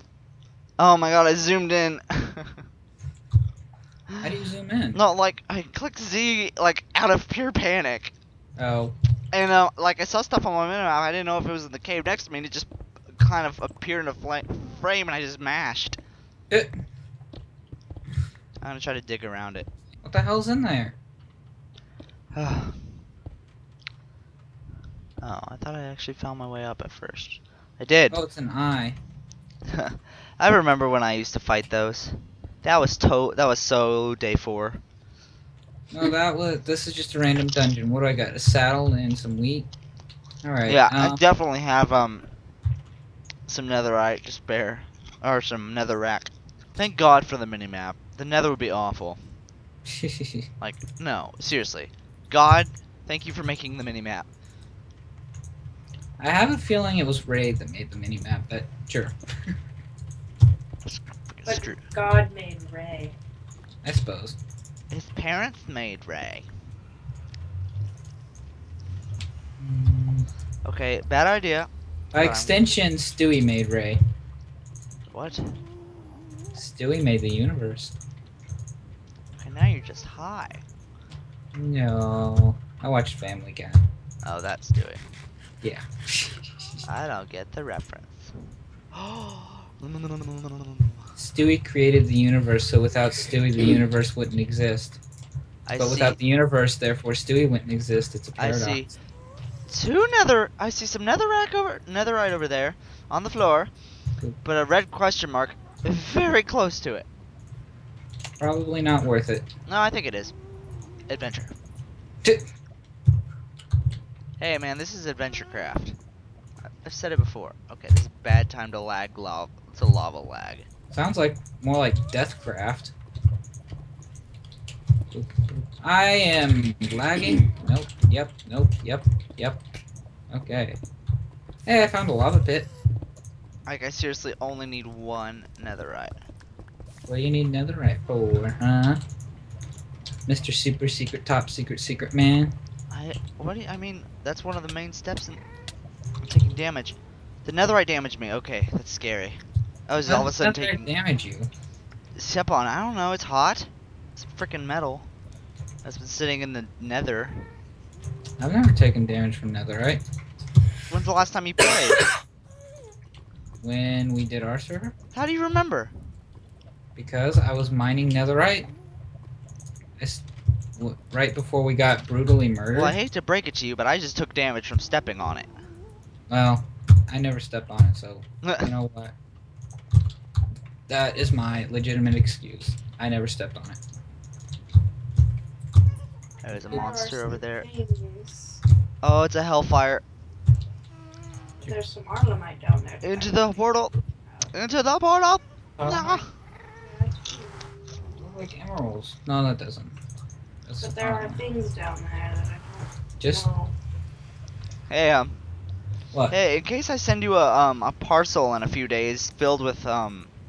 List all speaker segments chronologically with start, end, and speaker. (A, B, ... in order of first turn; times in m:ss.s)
0:00.8-0:02.6 A
0:04.2-0:05.0 B
0:04.9-0:08.1 A
0:08.6-0:08.9 B
0:09.3-0:16.0 A
0:16.5-0:16.7 B
0:18.6-0:19.7 A
0:20.0-0:21.0 B
0:22.3-0:22.8 A
0:25.2-0:28.2 A
0:28.1-0:29.0 B
0:29.7-0:34.8 A
0:35.9-0:39.7 B
0:40.4-0:41.2 B
0:40.7-0:42.2 A
0:43.5-0:49.2 A
0:49.9-0:50.5 B
0:50.6-0:54.3 A
0:56.2-0:59.2 B
1:01.2-1:01.8 A
1:01.4-1:03.2 C
1:03.8-1:04.4 B
1:04.9-1:06.5 A
1:09.6-1:10.3 B
1:10.6-1:12.7 A
1:12.1-1:14.0 B
1:15.1-1:15.6 A
1:16.5-1:17.9 B
1:19.4-1:20.6 A
1:21.5-1:23.8 B
1:24.2-1:25.0 A
1:25.6-1:26.8 B
1:26.8-1:28.3 A
1:28.9-1:31.0 A
1:31.2-1:35.0 B
1:35.6-1:36.2 A
1:35.8-1:38.9 B
1:38.4-1:38.9 A
1:39.7-1:43.7 A
1:44.4-1:47.1 A
1:48.4-1:49.4 B
1:49.7-1:50.3 A
1:51.1-1:51.5 A
1:54.4-1:56.0 A
1:56.8-2:00.6 A
2:00.9-2:02.9 B
2:05.1-2:09.6 B
2:10.3-2:10.8 B
2:11.6-2:12.7 B
2:13.6-2:16.2 A
2:17.1-2:19.0 B
2:20.3-2:22.6 B
2:22.9-2:25.4 A
2:26.2-2:30.9 A
2:30.0-2:31.5 B
2:32.2-2:35.1 A
2:35.8-2:37.4 A
2:38.4-2:40.0 B
2:40.9-2:42.0 A
2:43.6-2:44.9 B
2:45.1-2:45.9 A
2:47.0-2:48.7 B
2:50.0-2:50.2 B
2:50.8-2:53.0 B
2:52.7-2:55.5 A
2:56.3-2:59.1 B
2:58.4-2:58.7 A
3:00.9-3:03.8 B
3:06.4-3:07.6 A
3:06.5-3:08.6 C
3:09.0-3:10.0 A
3:11.6-3:14.5 C
3:13.0-3:13.9 A
3:14.5-3:16.3 A
3:15.8-3:16.2 B
3:16.8-3:17.6 C
3:18.0-3:20.0 B
3:20.6-3:21.4 B
3:20.8-3:23.7 C
3:23.2-3:23.5 B
3:24.9-3:25.4 A
3:26.3-3:30.3 A